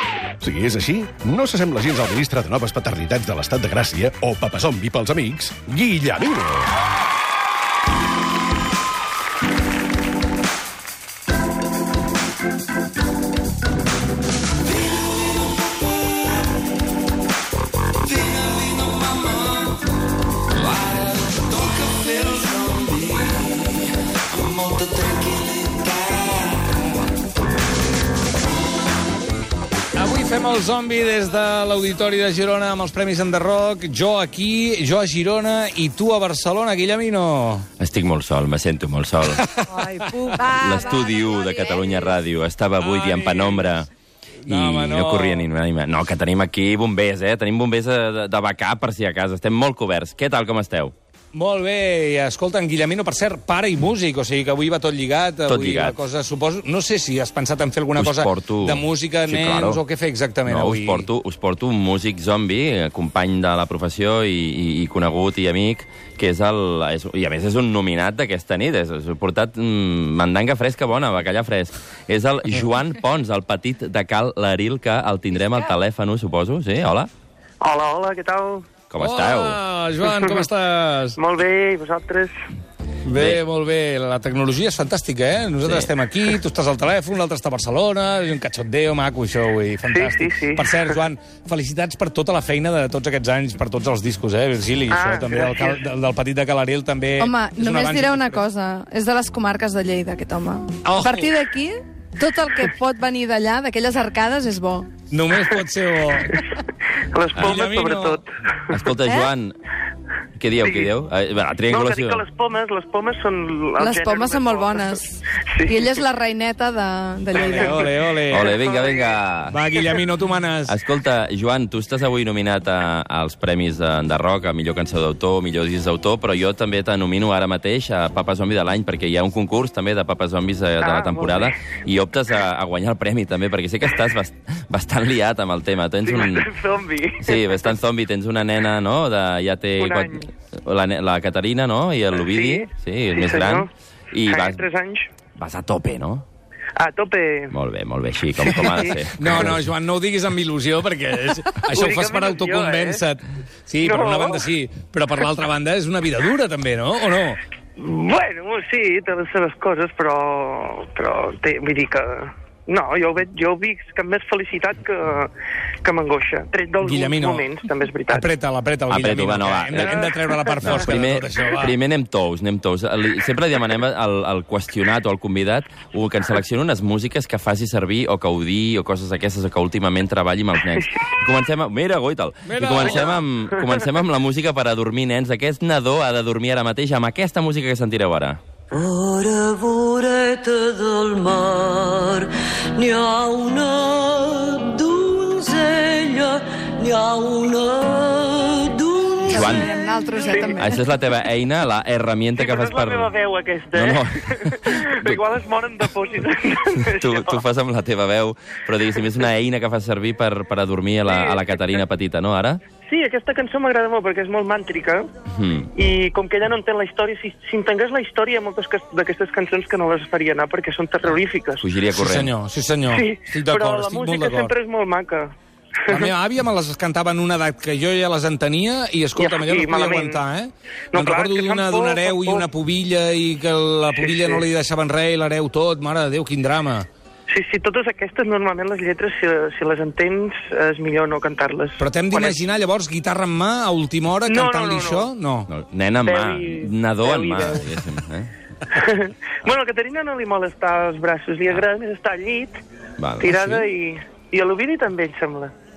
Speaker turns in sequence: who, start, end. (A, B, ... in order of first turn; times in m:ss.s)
0:00.4-0:06.7 A
0:14.8-0:16.4 B
0:18.0-0:19.8 B
0:20.5-0:26.7 B
0:29.9-0:37.7 C
0:37.8-0:39.4 B
0:39.3-0:40.4 C
0:39.7-0:42.1 D
0:40.5-0:43.9 B
0:42.8-0:43.7 C
0:44.4-0:45.5 C
0:44.4-0:50.9 B
0:51.3-1:01.1 C
0:55.5-0:56.0 B
0:58.0-0:59.8 B
1:00.4-1:17.1 B
1:17.6-1:18.7 E
1:18.9-1:19.6 B
1:19.0-1:21.2 C
1:20.0-1:20.4 E
1:21.2-1:22.3 E
1:23.0-1:38.4 C
1:23.1-1:23.4 B
1:25.6-1:25.9 B
1:29.9-1:31.0 E
1:34.9-1:35.8 E
1:37.2-1:44.9 D
1:40.8-1:41.3 C
1:45.1-1:46.4 C
1:46.1-1:48.3 E
1:47.4-1:48.2 C
1:48.7-1:49.5 B
1:49.0-1:49.3 D
1:50.4-1:52.2 B
1:50.6-1:50.9 E
1:51.7-1:55.9 E
1:53.8-1:57.9 D
1:57.3-1:58.5 C
1:57.5-1:59.1 E
1:58.3-1:59.6 B
1:59.5-2:00.7 C
2:00.7-2:16.5 B
2:10.8-2:11.6 E
2:16.0-2:17.7 E
2:17.2-2:24.6 B
2:19.8-2:20.3 E
2:22.2-2:23.7 E
2:24.2-2:25.1 E
2:25.4-2:26.2 B
2:26.8-2:27.5 E
2:27.5-2:29.6 B
2:28.5-2:37.4 C
2:28.6-2:29.0 E
2:31.7-2:33.0 E
2:33.8-2:34.5 E
2:37.8-2:45.3 E
2:45.8-2:48.3 E
2:46.8-2:47.4 C
2:48.1-2:51.7 C
2:48.9-2:50.1 B
2:49.8-2:50.7 E
2:50.6-3:08.4 B
3:02.5-3:03.2 C
3:02.8-3:03.9 E
3:08.7-3:19.7 F
3:19.2-3:20.9 D
3:19.3-3:19.7 B
3:20.2-3:20.7 E
3:20.5-3:23.1 B
3:22.4-3:27.4 E
3:23.7-3:25.2 B
3:26.8-3:32.6 B
3:31.0-3:31.6 E
3:32.8-3:35.1 E
3:35.3-3:35.7 B
3:35.7-3:41.6 E
3:41.6-3:42.3 B
3:41.9-3:44.5 C
3:42.9-3:45.3 E
3:45.9-3:56.9 C
3:49.2-3:50.2 E
3:50.9-3:52.5 E
3:54.0-3:54.4 E
3:57.3-4:02.4 E
4:01.8-4:05.5 C
4:04.2-4:05.1 E
4:05.5-4:08.3 B
4:06.0-4:07.6 E
4:08.7-4:12.6 E
4:13.0-4:13.6 B
4:13.2-4:15.5 E